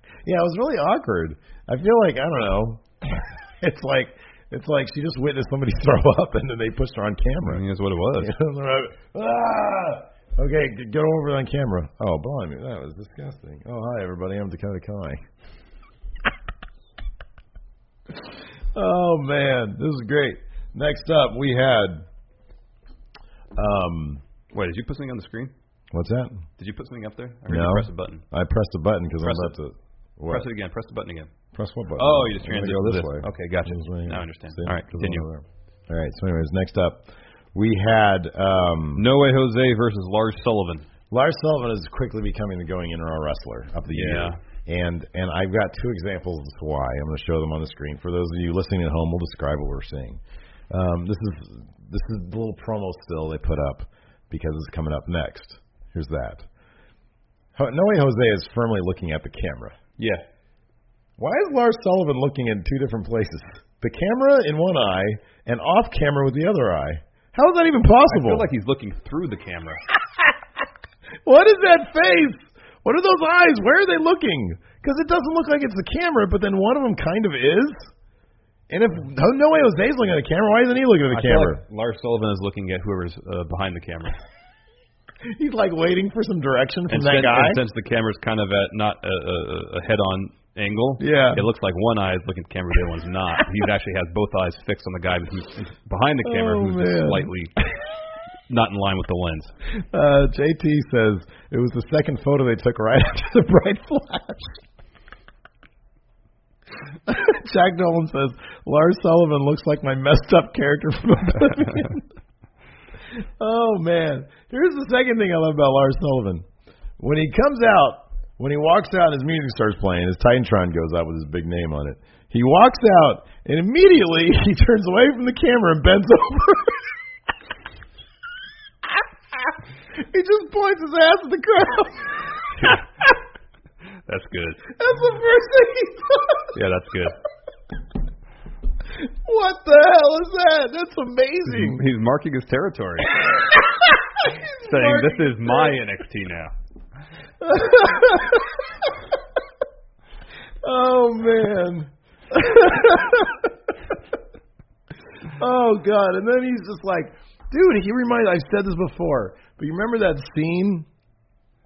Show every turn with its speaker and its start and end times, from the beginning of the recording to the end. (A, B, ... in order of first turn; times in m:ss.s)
0:00.2-0:07.6 A
0:07.4-0:08.3 B
0:08.2-0:15.2 A
0:18.7-0:22.0 A
0:23.5-0:24.2 A
0:24.5-0:25.5 B
0:25.9-0:26.4 A
0:26.6-0:28.2 B
0:27.5-0:30.5 A
0:29.2-0:29.5 B
0:30.3-0:31.3 B
0:31.5-0:39.0 A
0:32.0-0:35.2 B
0:39.0-0:40.9 B
0:41.1-0:56.5 A
0:43.9-0:44.4 B
0:57.6-0:59.8 A
1:00.0-1:00.2 B
1:01.2-1:08.5 A
1:08.1-1:09.8 B
1:11.2-1:17.9 A
1:18.7-1:21.6 A
1:21.1-1:24.2 B
1:25.2-1:27.6 A
1:26.9-1:37.5 B
1:31.0-1:31.4 A
1:36.2-1:37.3 A
1:38.5-1:39.5 B
1:39.9-1:44.6 A
1:47.1-1:52.0 A
1:53.1-1:56.4 A
1:57.0-2:06.9 A
2:09.4-2:12.8 A
2:14.1-2:14.7 B
2:14.7-2:16.6 A
2:16.5-2:17.2 B
2:18.9-2:21.8 A
2:21.4-2:23.2 B
2:23.2-2:25.8 A
2:24.6-2:26.5 B
2:27.4-2:28.9 A
2:30.6-2:33.5 A
2:35.4-2:40.9 A